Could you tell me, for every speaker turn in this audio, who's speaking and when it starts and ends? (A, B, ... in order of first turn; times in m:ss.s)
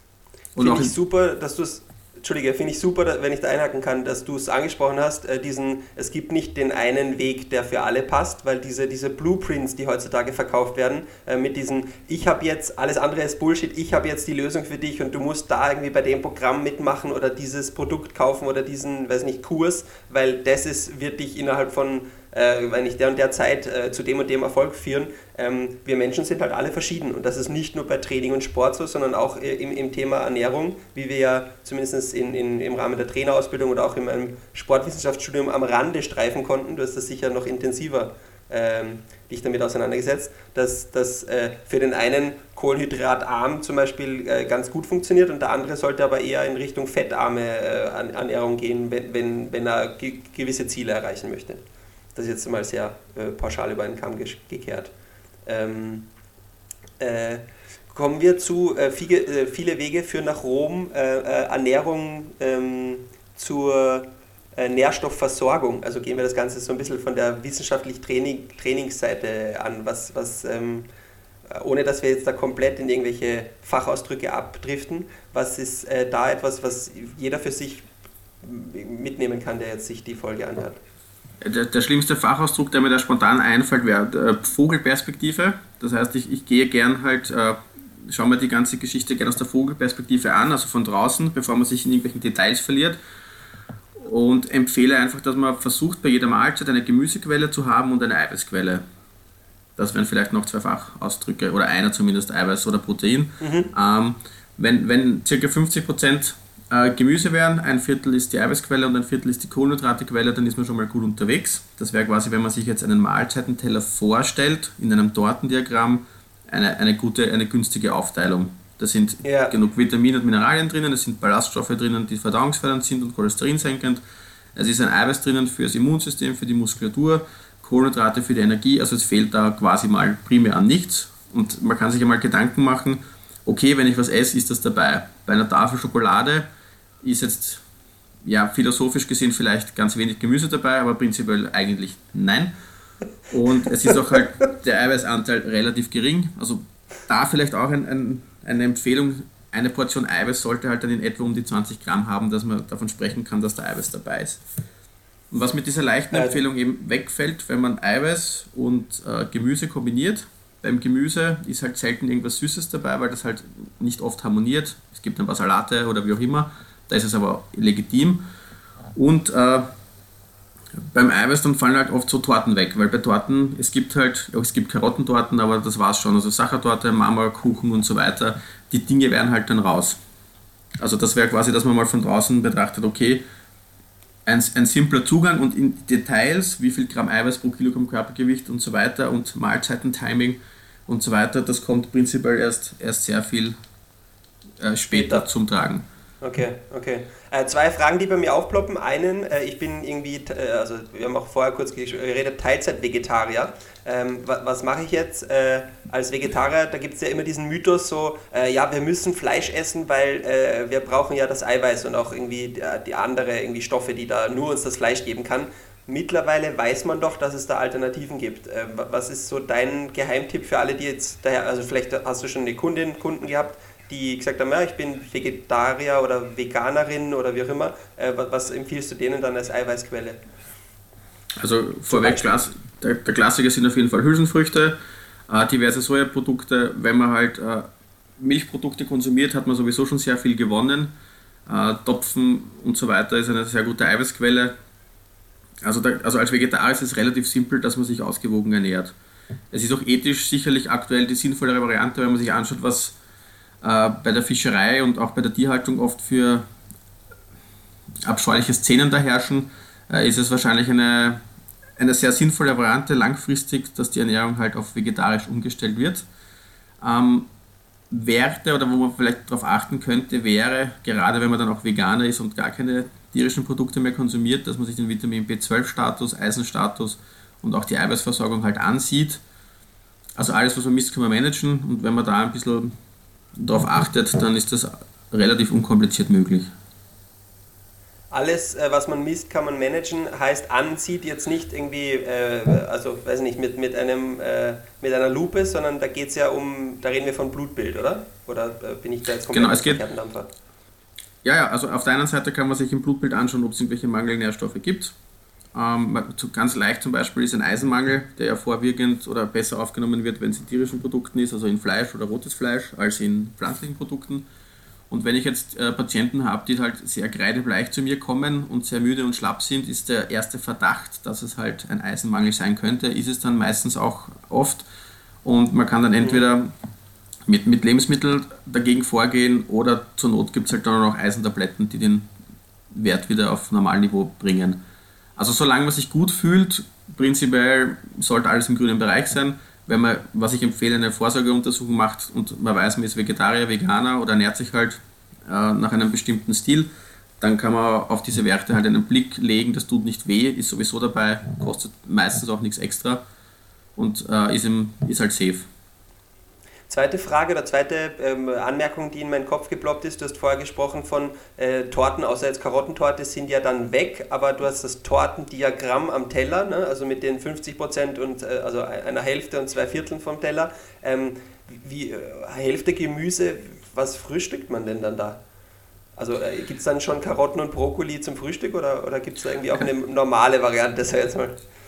0:00.5-0:00.9 A
0:00.6-0:51.6 B
0:52.1-0:54.9 B
0:55.4-0:56.1 B
0:57.0-1:10.8 B
1:11.5-1:17.9 B
1:18.4-1:20.8 B
1:21.4-1:33.0 A
1:33.9-1:38.8 A
1:39.8-2:04.0 A
1:43.4-1:43.7 B
1:59.2-1:59.5 B
2:04.5-2:16.5 A
2:17.0-2:17.6 A
2:18.2-2:22.5 A
2:23.3-2:34.4 A
2:35.3-2:48.2 A
2:36.1-2:36.4 B
2:48.9-2:49.7 A
2:50.8-3:00.0 A
3:00.8-3:03.2 A
3:04.2-3:13.6 A
3:14.6-3:15.8 A
3:14.9-3:15.2 B
3:16.2-3:50.2 B
3:51.4-3:54.8 A
3:51.9-3:52.3 B
3:55.3-3:57.7 A
3:58.2-4:00.9 A
4:01.4-4:04.5 A
4:05.6-4:08.9 A
4:09.5-4:13.0 A
4:13.6-4:16.4 A
4:18.0-4:21.2 A
4:21.8-4:26.0 A
4:26.8-4:27.3 A
4:27.9-4:39.2 A
4:40.2-4:42.7 A
4:43.4-4:46.5 A
4:48.1-5:00.3 B
4:59.3-4:59.8 A
5:01.2-5:04.9 A
5:05.5-5:14.2 A
5:14.9-5:24.6 A
5:25.2-5:26.5 A
5:27.3-5:32.1 A
5:32.7-5:34.6 A
5:35.2-5:46.7 A
5:47.2-5:53.0 A
5:53.8-5:55.5 A
5:56.7-6:15.2 B
6:16.0-6:21.4 B